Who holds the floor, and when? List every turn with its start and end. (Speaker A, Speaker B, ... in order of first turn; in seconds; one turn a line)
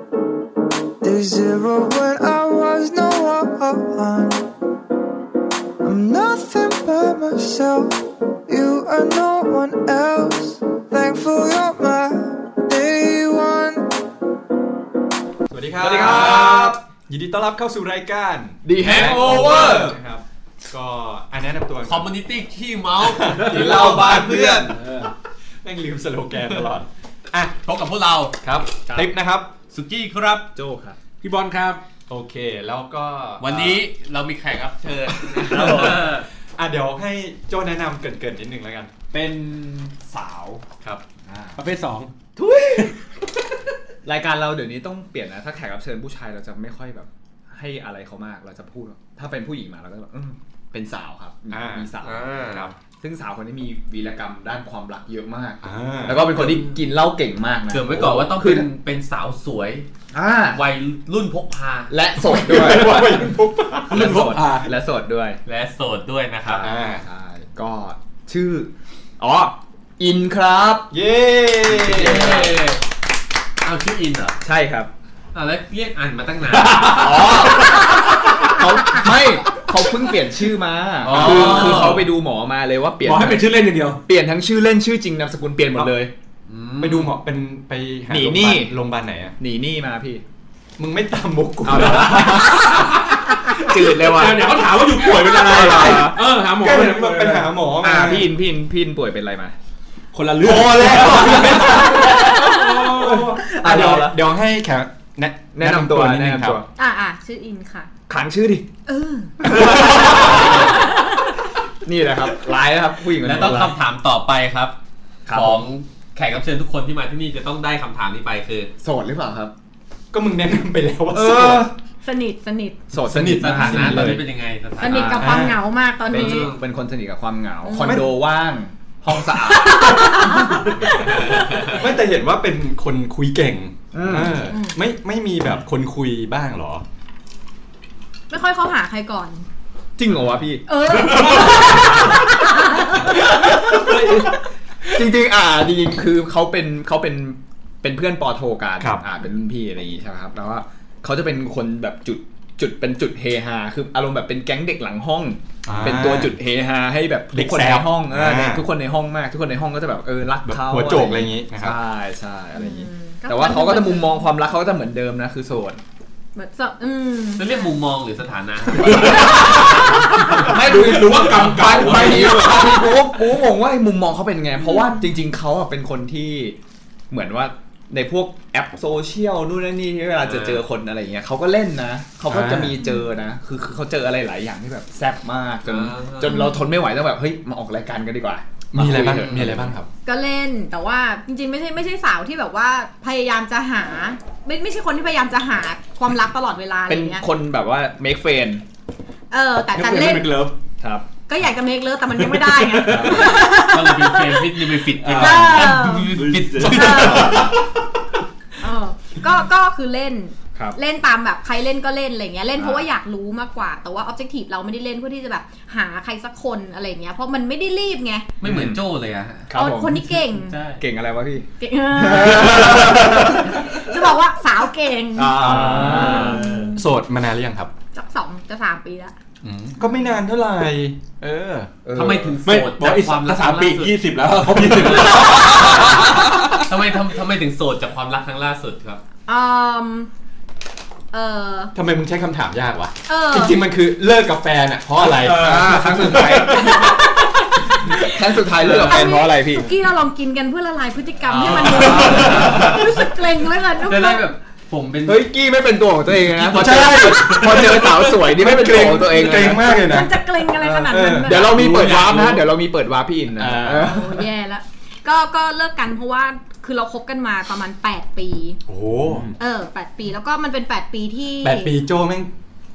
Speaker A: 1.0-4.5
Speaker A: 5.8-13.9
Speaker B: 15.5-22.1
Speaker C: 15.8-16.8
Speaker C: 18.6-20.0
Speaker D: 18.8-19.9
Speaker D: 21.8-24.1
Speaker B: 23.0-25.1
Speaker C: 23.5-24.7
Speaker E: 24.7-25.1
Speaker B: 25.6-27.5
Speaker D: 27.6-28.4
Speaker B: 28.4-29.5
Speaker C: 28.9-29.1
Speaker D: 29.7-30.5
Speaker C: 30.5-31.0
Speaker E: 31.2-31.8
Speaker B: 32.1-33.8
Speaker D: 33.4-36.2
Speaker B: 35.4-38.9
Speaker C: 35.5-36.2
Speaker C: 39.1-40.6
Speaker C: 41.2-41.6
Speaker E: 41.6-42.1
Speaker C: 42.4-42.9
Speaker C: 44.0-52.3
Speaker B: 51.5-51.9
Speaker D: 52.0-52.7
Speaker B: 52.4-52.7
Speaker C: 53.0-58.7
Speaker B: 55.6-56.3
Speaker D: 56.2-56.7
Speaker D: 57.7-59.9
Speaker B: 57.9-58.2
Speaker C: 60.1-60.6
Speaker D: 60.5-61.9
Speaker C: 61.9-63.3
Speaker B: 62.2-64.3
Speaker C: 63.9-65.4
Speaker E: 63.9-64.7
Speaker D: 65.5-66.7
Speaker C: 66.5-70.9
Speaker B: 66.5-67.0
Speaker B: 70.9-72.5
Speaker C: 71.7-72.5
Speaker D: 71.8-72.8
Speaker D: 73.6-74.4
Speaker C: 74.4-74.9
Speaker D: 75.3-77.1
Speaker E: 76.5-77.8
Speaker C: 76.9-83.4
Speaker D: 81.0-82.1
Speaker B: 81.1-82.0
Speaker E: 83.0-84.0
Speaker C: 84.0-86.1
Speaker D: 86.5-87.2
Speaker B: 86.8-89.3
Speaker C: 88.1-88.7
Speaker C: 89.4-90.2
Speaker B: 90.8-93.7
Speaker C: 91.6-96.2
Speaker E: 94.0-97.6
Speaker B: 95.3-98.3
Speaker C: 97.8-99.5
Speaker E: 100.1-101.8
Speaker B: 100.4-106.6
Speaker C: 101.3-104.2
Speaker C: 105.5-106.7
Speaker F: 106.8-107.9
Speaker C: 108.1-108.7
Speaker F: 108.9-109.8
Speaker C: 109.4-110.6
Speaker B: 109.4-110.4
Speaker D: 110.0-110.9
Speaker F: 110.6-111.3
Speaker C: 111.8-113.8
Speaker D: 113.2-114.7
Speaker C: 115.2-115.7
Speaker D: 115.3-118.7
Speaker C: 118.8-119.5
Speaker B: 120.1-121.7
Speaker C: 121.1-121.7
Speaker F: 122.0-122.8
Speaker C: 122.9-124.2
Speaker B: 123.0-124.2
Speaker D: 123.1-125.4
Speaker F: 124.8-126.5
Speaker C: 124.8-125.3
Speaker B: 125.0-125.6
Speaker D: 126.1-126.6
Speaker C: 126.1-131.2
Speaker F: 127.6-128.1
Speaker B: 127.8-128.1
Speaker F: 129.4-131.8
Speaker B: 130.9-136.8
Speaker C: 133.9-134.4
Speaker F: 134.5-134.8
Speaker F: 138.3-139.4
Speaker C: 140.0-144.3
Speaker F: 140.7-143.3
Speaker E: 141.2-141.6
Speaker C: 144.9-165.8
Speaker B: 155.7-156.3
Speaker B: 157.3-158.6
Speaker B: 160.4-161.8
Speaker F: 162.5-164.3
Speaker F: 166.3-167.7
Speaker D: 167.4-170.5
Speaker E: 168.8-173.0
Speaker F: 169.2-169.7
Speaker C: 170.4-176.6
Speaker F: 174.7-174.9
Speaker C: 177.1-189.8
Speaker D: 180.2-180.6
Speaker B: 182.3-182.8
Speaker F: 182.8-183.1
Speaker D: 185.6-186.4
Speaker F: 186.2-186.7
Speaker B: 188.7-189.9
Speaker F: 190.0-197.2
Speaker C: 196.9-198.6
Speaker F: 199.3-200.4
Speaker E: 199.7-200.5
Speaker C: 200.8-201.1
Speaker F: 201.3-207.5
Speaker E: 202.2-203.2
Speaker C: 202.8-203.4
Speaker D: 203.3-207.4
Speaker E: 205.0-207.6
Speaker F: 208.6-218.3
Speaker C: 212.6-212.8
Speaker D: 218.4-219.5
Speaker C: 218.4-218.8
Speaker C: 219.5-223.7
Speaker F: 219.5-220.6
Speaker D: 220.3-220.8
Speaker F: 221.6-226.8
Speaker C: 225.2-226.5
Speaker B: 225.4-227.7
Speaker E: 225.4-226.7
Speaker F: 227.9-229.1
Speaker B: 229.4-231.8
Speaker C: 231.8-232.4
Speaker D: 231.9-234.0
Speaker E: 232.4-236.6
Speaker B: 234.5-235.3
Speaker D: 234.6-239.0
Speaker F: 239.3-240.1
Speaker F: 241.1-241.7
Speaker B: 241.7-246.7
Speaker F: 243.1-243.6
Speaker E: 245.1-246.2
Speaker C: 245.2-247.1
Speaker F: 246.5-247.1
Speaker C: 248.0-249.7
Speaker F: 248.6-254.2
Speaker D: 251.3-252.9
Speaker C: 251.6-252.7
Speaker D: 253.8-255.2
Speaker C: 255.0-259.7
Speaker B: 256.3-260.2
Speaker F: 259.4-261.6
Speaker C: 260.6-264.0
Speaker B: 260.9-261.6
Speaker D: 261.4-262.4
Speaker B: 263.4-264.2
Speaker F: 263.8-268.6
Speaker B: 268.7-269.3
Speaker F: 269.4-271.8
Speaker B: 271.4-272.3